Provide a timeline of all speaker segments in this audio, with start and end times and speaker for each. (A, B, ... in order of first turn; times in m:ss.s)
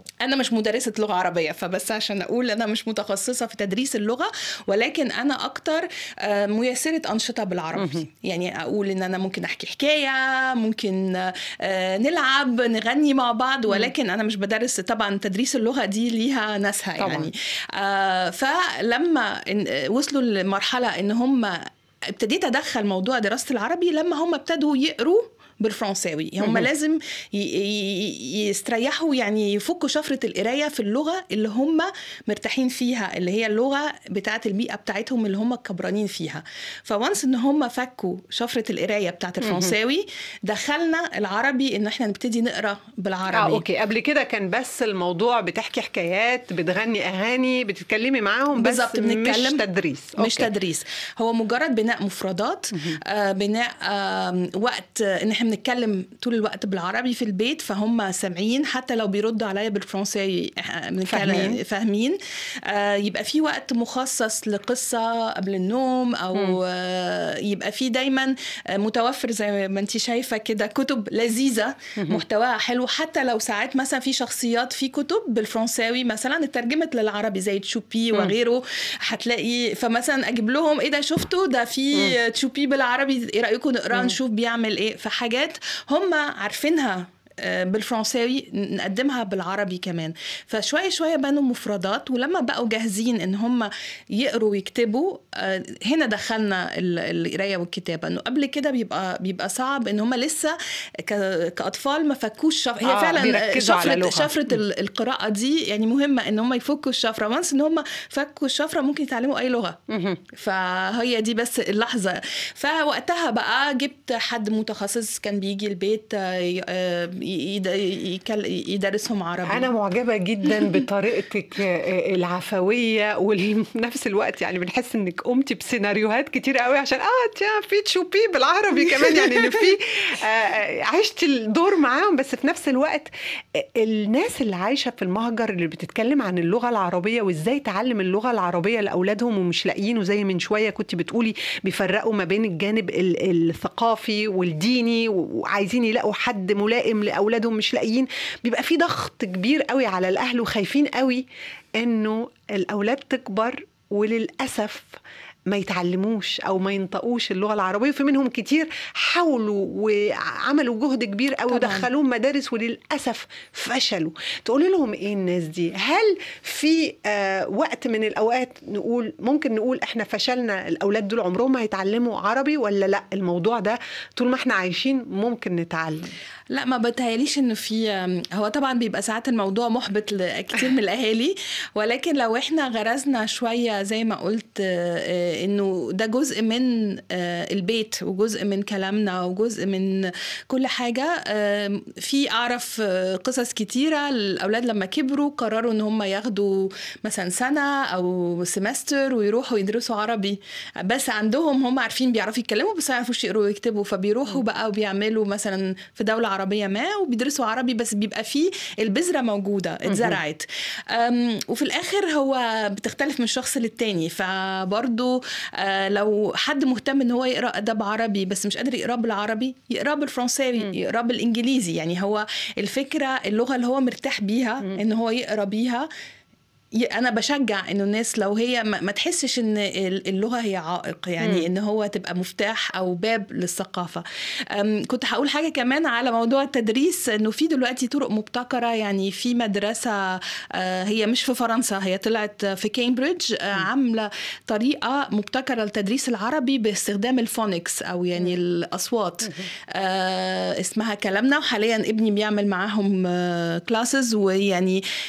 0:00.2-0:43.6 A
0:07.8-0:08.1 B
0:17.0-0:17.3 B
0:26.4-0:26.7 B
0:39.4-0:39.7 B
0:43.3-0:50.5 B
0:48.6-0:49.6 A
0:50.2-1:49.8 A
1:01.1-1:01.6 B
1:42.8-1:44.6 B
1:49.9-1:50.2 B
1:50.3-1:59.7 A
1:59.5-2:31.2 B
2:31.8-2:56.1 B
2:41.5-2:41.9 A
2:56.5-3:45.9 A
3:29.9-3:30.2 B
3:46.8-4:14.8 A
3:51.2-3:51.5 B
4:09.2-4:09.5 B